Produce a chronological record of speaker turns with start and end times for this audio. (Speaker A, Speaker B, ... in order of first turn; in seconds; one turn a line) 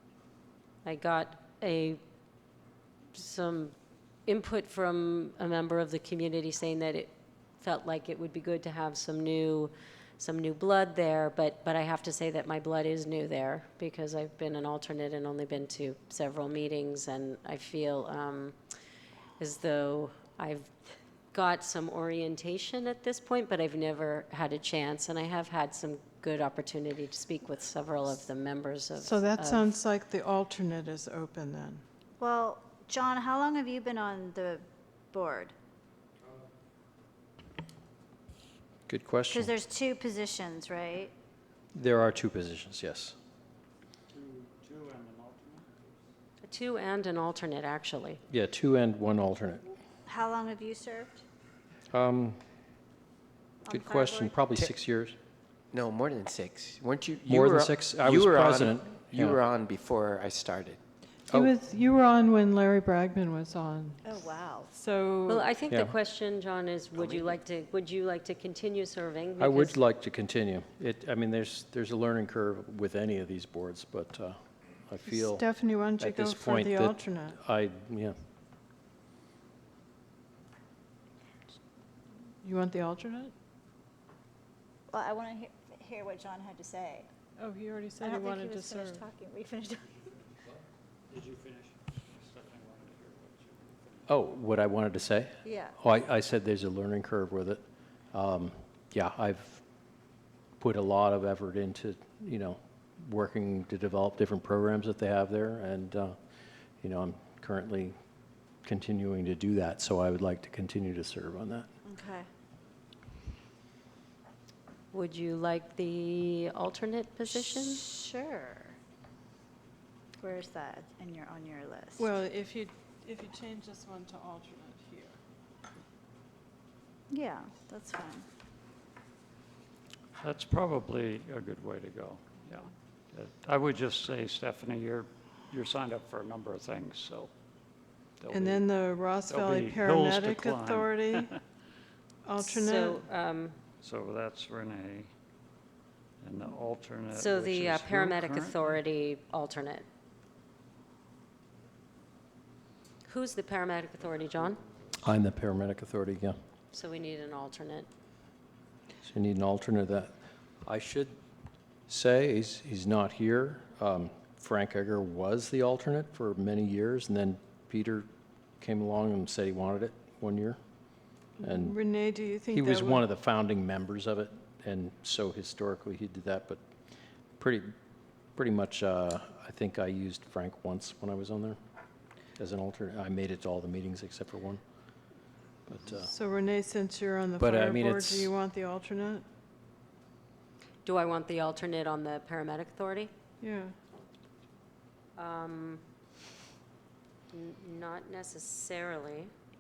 Speaker A: 0.8-2.0
Speaker A: 3.1-3.7
Speaker A: 4.3-18.6
Speaker A: 19.4-20.7
Speaker A: 21.3-29.7
Speaker B: 29.0-31.8
Speaker C: 32.2-35.5
Speaker D: 38.9-39.5
Speaker C: 39.3-41.1
Speaker D: 41.8-43.2
Speaker E: 44.1-45.9
Speaker A: 46.4-48.2
Speaker D: 48.3-49.6
Speaker C: 50.1-51.2
Speaker D: 51.9-52.4
Speaker C: 53.6-54.4
Speaker D: 53.7-55.2
Speaker F: 55.7-60.8
Speaker D: 57.3-59.4
Speaker B: 61.3-64.1
Speaker C: 64.0-64.7
Speaker B: 64.7-65.5
Speaker A: 65.3-69.8
Speaker F: 67.0-67.3
Speaker D: 69.4-75.4
Speaker B: 75.1-77.4
Speaker D: 76.0-78.2
Speaker B: 82.4-83.3
Speaker C: 84.9-87.1
Speaker B: 87.4-89.0
Speaker C: 88.0-90.1
Speaker E: 91.1-94.0
Speaker D: 94.1-99.6
Speaker C: 95.5-95.8
Speaker D: 100.6-106.2
Speaker D: 106.8-108.0
Speaker D: 108.7-111.7
Speaker C: 111.8-112.3
Speaker A: 114.9-117.8
Speaker C: 117.5-118.8
Speaker C: 120.2-122.1
Speaker B: 122.0-125.2
Speaker C: 127.1-128.3
Speaker E: 130.2-137.3
Speaker E: 138.2-138.6
Speaker B: 138.3-141.3
Speaker E: 139.3-141.3
Speaker B: 142.2-143.1
Speaker A: 142.4-143.6
Speaker E: 143.8-145.1
Speaker E: 146.2-148.7
Speaker A: 147.1-149.9
Speaker A: 153.1-154.6
Speaker D: 155.0-156.4
Speaker A: 156.7-157.9
Speaker D: 159.0-161.2
Speaker D: 161.9-168.1
Speaker D: 168.6-170.6
Speaker B: 171.4-173.0
Speaker D: 171.4-171.8
Speaker D: 172.5-176.6
Speaker D: 177.4-177.8
Speaker D: 178.4-181.6
Speaker D: 182.4-184.6
Speaker D: 185.7-186.1
Speaker B: 186.0-189.2
Speaker D: 187.4-188.3
Speaker A: 190.8-193.1
Speaker B: 193.4-193.8
Speaker A: 195.2-195.8
Speaker A: 197.3-199.3